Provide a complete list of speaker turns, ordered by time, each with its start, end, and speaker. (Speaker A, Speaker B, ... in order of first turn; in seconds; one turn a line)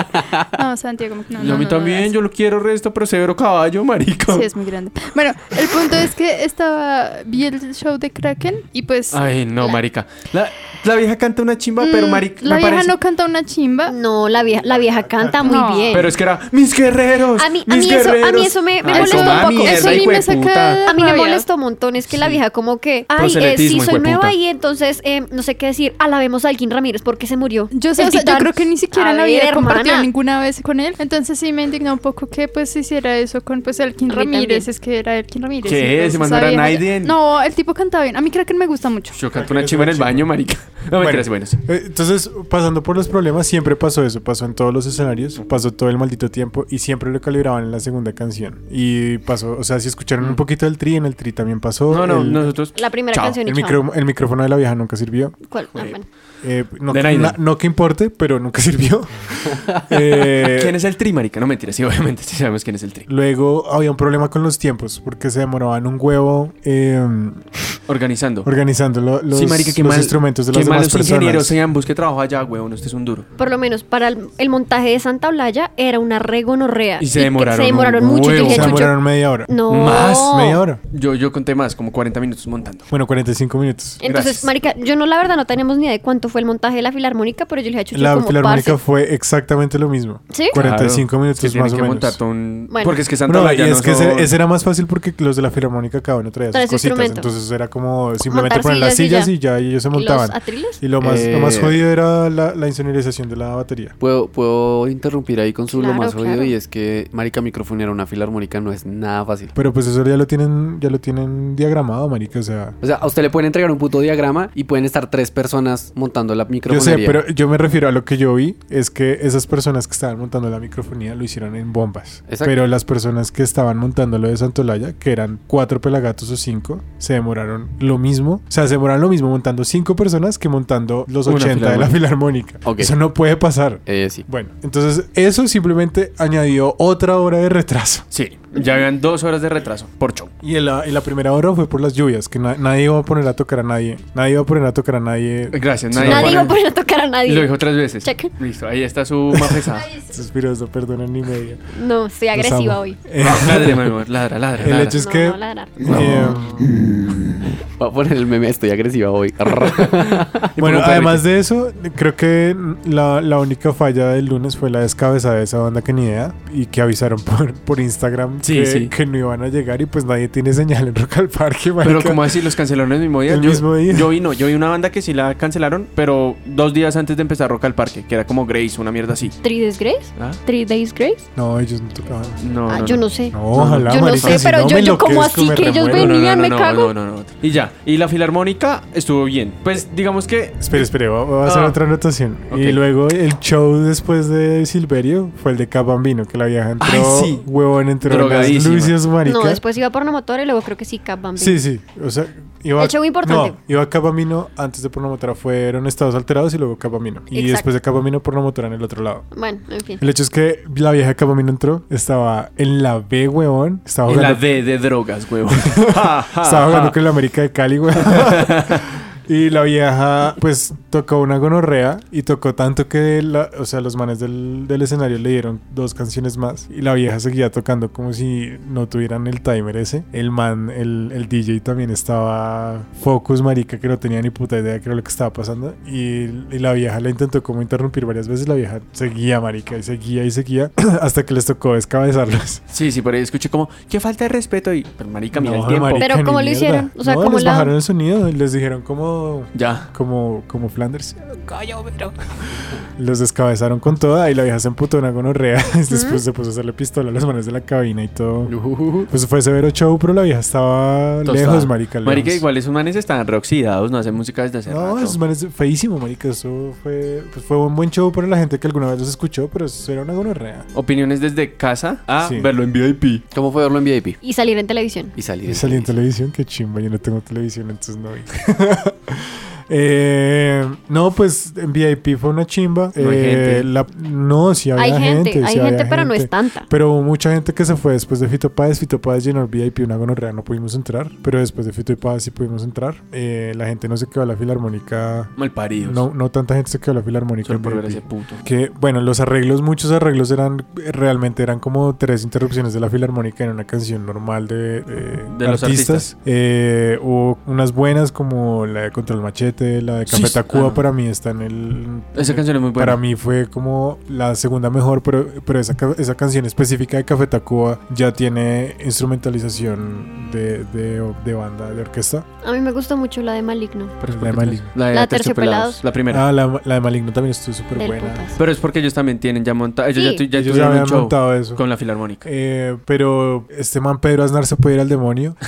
Speaker A: 0.5-2.1
Speaker B: 1.4-4.5
Speaker A: 4.3-9.2
Speaker B: 9.1-13.0
Speaker A: 11.9-13.9
Speaker C: 13.8-16.1
Speaker A: 15.4-16.1
Speaker B: 15.9-20.8
Speaker C: 17.4-20.2
Speaker A: 18.9-21.4
Speaker C: 20.9-30.1
Speaker B: 22.1-22.4
Speaker B: 23.1-24.3
Speaker A: 27.7-39.2
Speaker C: 34.1-34.7
Speaker B: 35.6-37.2
Speaker B: 39.1-41.6
Speaker D: 39.3-40.3
Speaker D: 41.0-52.5
Speaker B: 51.9-53.4
Speaker C: 52.7-53.8
Speaker D: 53.4-55.4
Speaker C: 55.5-56.0
Speaker D: 56.4-60.7
Speaker B: 56.9-57.4
Speaker B: 60.4-63.0
Speaker D: 63.1-67.8
Speaker B: 67.9-68.5
Speaker D: 68.4-71.6
Speaker B: 69.3-73.2
Speaker C: 73.4-80.6
Speaker B: 77.0-78.9
Speaker D: 78.3-80.8
Speaker B: 79.7-82.9
Speaker D: 82.9-84.0
Speaker C: 84.0-88.8
Speaker B: 84.0-84.5
Speaker D: 87.9-92.2
Speaker C: 90.3-90.6
Speaker B: 90.5-94.3
Speaker C: 92.7-92.9
Speaker D: 93.2-104.0
Speaker C: 96.5-97.3
Speaker C: 98.2-99.3
Speaker C: 99.9-100.8
Speaker E: 101.0-101.8
Speaker E: 104.0-109.5
Speaker C: 105.7-106.5
Speaker D: 109.5-112.8
Speaker E: 112.8-117.2
Speaker D: 116.7-138.1
Speaker E: 122.3-122.5
Speaker B: 131.2-131.9
Speaker E: 132.6-132.9
Speaker E: 133.8-134.2
Speaker B: 138.1-140.3
Speaker C: 138.5-138.8
Speaker D: 140.4-146.5
Speaker B: 145.5-146.6
Speaker C: 146.1-148.3
Speaker B: 147.2-149.9
Speaker D: 150.1-151.6
Speaker C: 151.7-153.0
Speaker D: 152.3-153.9
Speaker B: 153.2-155.0
Speaker D: 154.6-156.7
Speaker C: 154.7-155.9
Speaker B: 155.8-156.6
Speaker E: 156.6-160.4
Speaker B: 159.8-161.2
Speaker D: 160.6-172.3
Speaker B: 168.4-168.9
Speaker B: 171.8-179.3
Speaker D: 173.3-174.2
Speaker C: 179.4-181.2
Speaker D: 181.3-182.4
Speaker B: 182.4-184.4
Speaker C: 182.7-186.9
Speaker D: 183.3-186.2
Speaker B: 185.7-191.8
Speaker D: 190.6-199.6
Speaker B: 192.5-192.8
Speaker B: 196.8-197.4
Speaker B: 198.0-198.9
Speaker C: 199.2-201.6
Speaker D: 201.4-209.2
Speaker C: 202.8-203.6
Speaker C: 207.3-207.7
Speaker C: 209.3-210.0
Speaker D: 210.0-214.4
Speaker B: 214.1-217.0
Speaker D: 215.5-242.6
Speaker B: 218.0-218.8
Speaker B: 242.7-246.1
Speaker D: 245.3-251.4
Speaker C: 246.0-247.7
Speaker B: 249.5-249.9
Speaker D: 253.0-258.5
Speaker C: 255.9-256.2
Speaker E: 258.5-259.1
Speaker D: 259.1-262.4
Speaker B: 261.2-265.2
Speaker D: 264.7-270.7
Speaker B: 270.7-273.2
Speaker D: 272.2-272.5
Speaker E: 273.3-274.2
Speaker C: 274.2-275.1
Speaker E: 275.1-275.9
Speaker D: 275.5-322.2
Speaker B: 283.0-283.7
Speaker C: 284.8-286.7
Speaker B: 295.4-296.1
Speaker B: 297.4-298.4
Speaker B: 305.3-306.1
Speaker B: 310.1-310.8
Speaker B: 312.1-313.0
Speaker C: 322.4-323.9
Speaker B: 324.0-326.2
Speaker D: 324.1-324.7
Speaker C: 324.9-325.8
Speaker D: 326.1-328.2
Speaker C: 327.8-328.4
Speaker B: 328.4-332.2
Speaker C: 329.9-330.2
Speaker D: 330.3-331.6
Speaker D: 332.2-335.4